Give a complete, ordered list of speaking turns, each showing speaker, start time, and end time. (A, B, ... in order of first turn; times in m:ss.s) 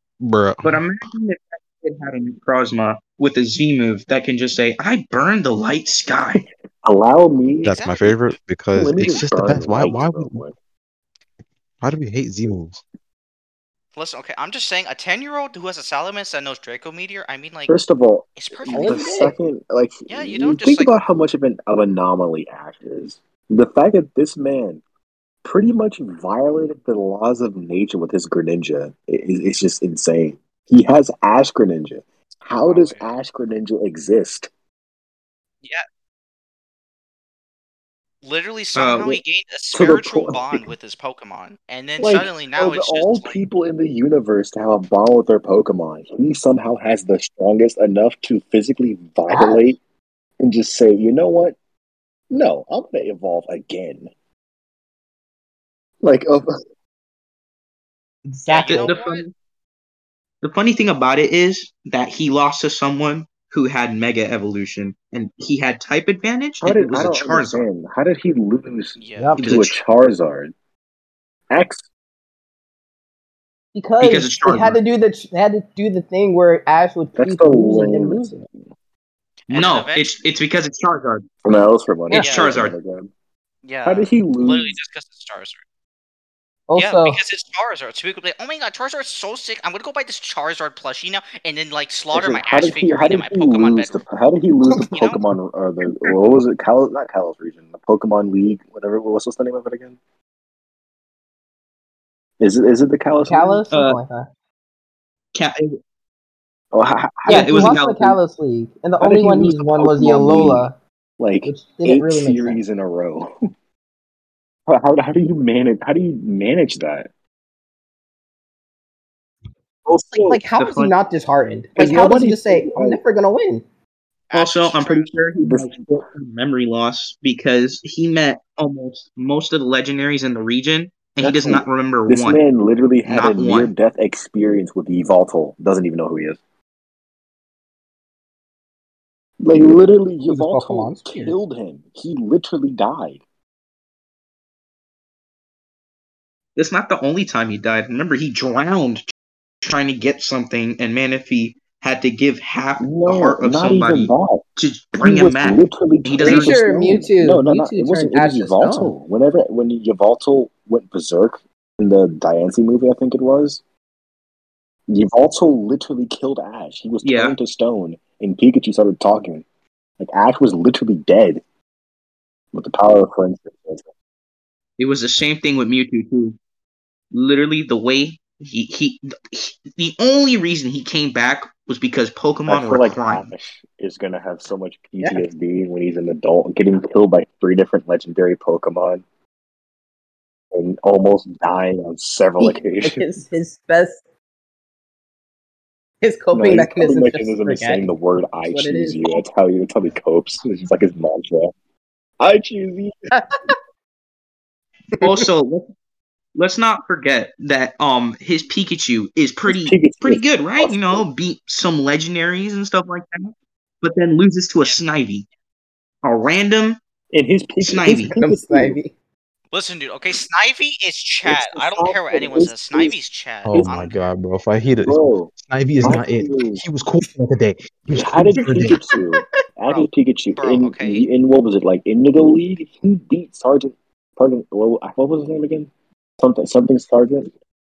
0:00.2-0:00.8 A
0:00.6-0:06.4 B
0:06.8-0:07.8 C
0:07.6-0:10.4 A
0:07.6-0:08.2 D
0:08.7-0:10.5 C
0:11.8-0:12.8 A
0:13.9-0:17.8 D
0:17.7-0:24.8 C
0:18.4-0:19.3 D
0:18.7-0:19.3 E
0:20.1-0:20.9 D
0:25.4-0:34.5 C
0:32.6-0:33.1 D
0:38.2-0:43.4 D
0:38.7-0:39.2 B
0:39.7-0:40.7 C
0:42.0-0:49.8 C
0:49.3-0:49.6 E
0:50.4-0:51.6 C
0:52.3-0:54.1 C
0:56.0-0:56.5 C
0:58.2-0:59.0 E
0:58.5-0:59.2 D
0:58.6-0:59.3 B
1:00.4-1:07.6 B
1:06.6-1:10.5 C
1:09.0-1:09.3 D
1:09.2-1:09.5 E
1:09.4-1:09.8 B
1:11.5-1:11.8 C
1:13.7-1:18.4 E
1:14.0-1:14.8 B
1:17.2-1:18.3 C
1:19.5-1:20.1 D
1:19.5-1:21.2 B
1:21.4-1:23.1 C
1:22.2-1:22.5 D
1:22.2-1:22.7 B
1:23.6-1:25.6 D
1:23.8-1:24.7 C
1:26.7-1:27.2 E
1:26.8-1:34.0 D
1:32.1-1:40.0 C
1:34.9-1:35.2 D
1:42.4-1:43.6 C
1:43.2-1:44.3 E
1:43.7-1:44.0 B
1:45.3-1:45.8 B
1:46.7-1:47.8 C
1:47.2-1:50.7 E
1:47.3-1:48.2 B
1:49.0-1:50.7 C
1:51.2-1:53.3 C
1:51.4-1:52.6 E
1:54.7-1:57.1 C
1:59.9-2:00.4 C
2:00.1-2:03.6 E
2:00.5-2:00.9 B
2:01.8-2:03.0 C
2:04.3-2:05.1 D
2:04.3-2:12.4 B
2:05.4-2:06.0 C
2:11.2-2:16.4 C
2:13.0-2:13.7 B
2:19.4-2:23.2 C
2:20.3-2:21.3 E
2:26.6-2:29.0 B
2:29.6-2:36.6 B
2:32.8-2:34.4 C
2:35.0-2:43.6 C
2:36.2-2:38.9 E
2:44.9-2:49.4 C
2:47.0-2:47.4 B
2:50.0-2:51.4 C
2:52.5-2:53.8 C
2:54.8-2:56.4 B
2:57.1-3:03.3 B
3:02.5-3:09.0 C
3:10.5-3:13.1 C
3:12.4-3:14.0 E
3:16.0-3:17.9 E
3:16.3-3:21.5 C
3:18.4-3:19.2 E
3:22.2-3:23.1 C
3:23.1-3:23.5 E
3:25.0-3:25.2 E
3:25.0-3:25.6 B
3:26.3-3:35.2 B
3:29.5-3:31.1 C
3:36.0-3:36.8 B
3:37.1-3:38.8 C
3:37.6-3:38.1 B
3:38.1-3:38.9 E
3:39.5-3:44.0 D
3:41.2-3:43.0 C
3:43.4-3:48.8 A
3:43.5-3:43.8 C
3:44.8-3:46.6 C
3:47.9-3:57.3 C
3:48.4-3:49.2 E
3:49.7-3:51.0 D